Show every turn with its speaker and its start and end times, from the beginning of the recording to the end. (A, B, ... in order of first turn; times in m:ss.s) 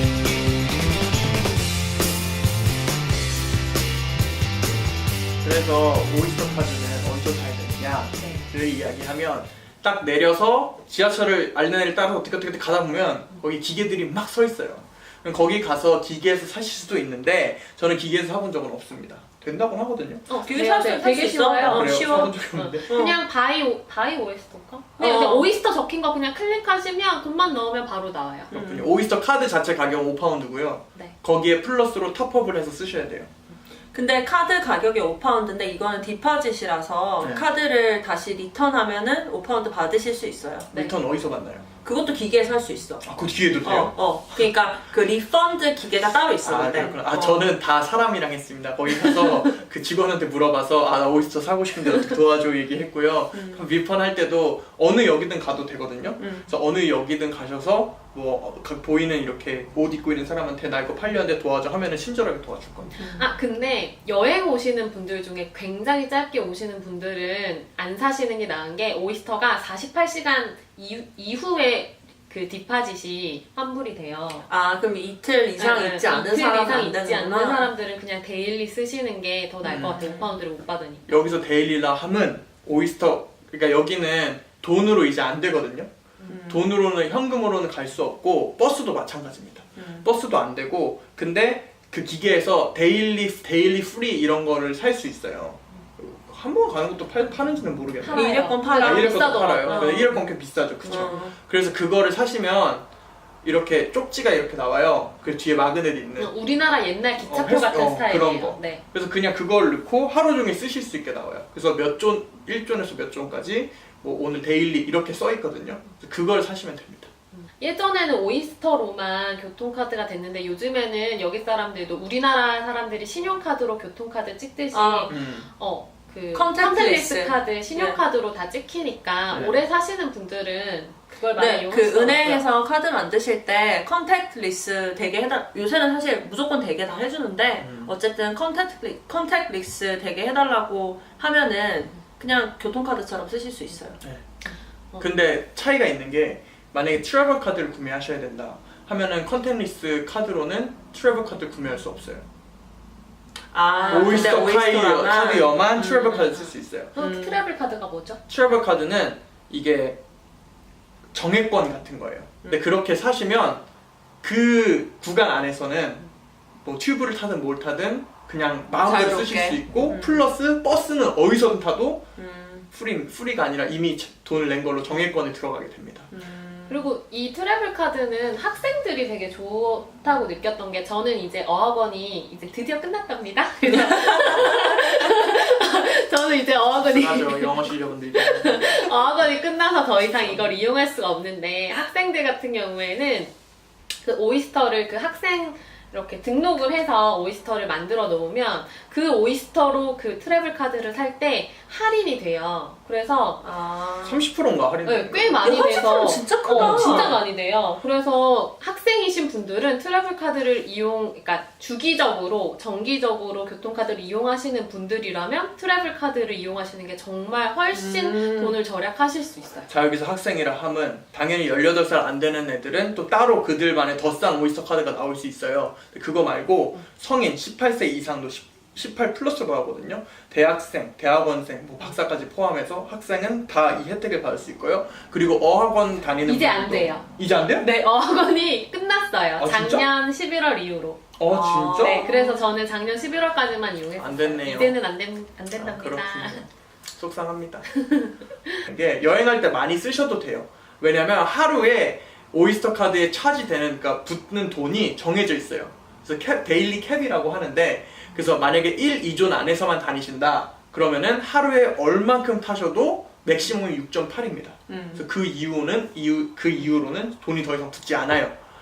0:05.4-0:20.2 A
0:20.3-0:28.5 B
0:20.4-0:22.4 C
0:21.6-0:22.9 A
0:22.9-0:23.2 C
0:25.0-0:25.5 C
0:28.5-0:28.9 C
0:28.5-0:33.3 A
0:33.9-0:40.7 C
0:37.2-0:37.4 A
0:40.7-0:41.6 A
0:41.8-0:43.1 C
0:43.0-0:44.5 A
0:43.6-0:47.5 C
0:46.4-1:03.0 A
0:53.3-0:53.6 C
0:56.2-0:56.5 C
1:03.0-1:03.3 C
1:03.1-1:14.5 B
1:14.5-1:17.7 C
1:15.6-1:21.0 B
1:19.6-1:20.0 A
1:19.9-1:20.4 C
1:21.1-1:42.8 A
1:26.3-1:26.7 C
1:29.8-1:30.1 C
1:38.0-1:40.2 B
1:38.1-1:40.2 C
1:40.8-1:41.3 B
1:40.9-1:41.3 C
1:43.4-1:46.3 A
1:46.2-1:48.8 B
1:47.2-1:57.1 A
1:57.3-2:12.4 B
2:04.7-2:05.1 C
2:05.1-2:05.5 A
2:06.3-2:08.0 C
2:09.3-2:09.6 A
2:11.4-2:24.0 C
2:17.6-2:17.9 A
2:24.0-2:24.3 A
2:24.4-2:25.1 B
2:25.0-2:32.2 A
2:33.5-2:36.4 C
2:33.8-2:34.4 B
2:33.9-2:36.9 A
2:36.3-2:38.2 B
2:37.0-2:37.4 C
2:38.3-2:40.0 A
2:41.1-2:43.6 A
2:44.2-2:46.0 A
2:46.6-2:52.1 A
2:48.8-2:50.2 C
2:52.2-2:52.7 C
2:52.7-2:56.1 A
2:56.1-2:56.9 C
2:56.7-3:13.3 B
3:03.7-3:05.0 C
3:04.2-3:04.6 A
3:06.7-3:08.9 A
3:10.0-3:10.5 A
3:14.0-3:23.4 B
3:23.4-3:24.2 C
3:24.0-3:25.5 A
3:24.8-3:39.7 B
3:25.4-3:27.2 C
3:26.5-3:27.1 A
3:37.7-3:38.6 C
3:39.7-3:57.7 A
3:56.2-4:01.0 B
3:59.4-3:59.8 A
4:01.2-4:02.0 A
4:01.3-4:02.5 C
4:01.8-4:06.4 B
4:04.0-4:04.8 A
4:05.5-4:07.7 A
4:07.7-4:08.6 B
4:08.6-4:28.3 A
4:24.7-4:25.0 C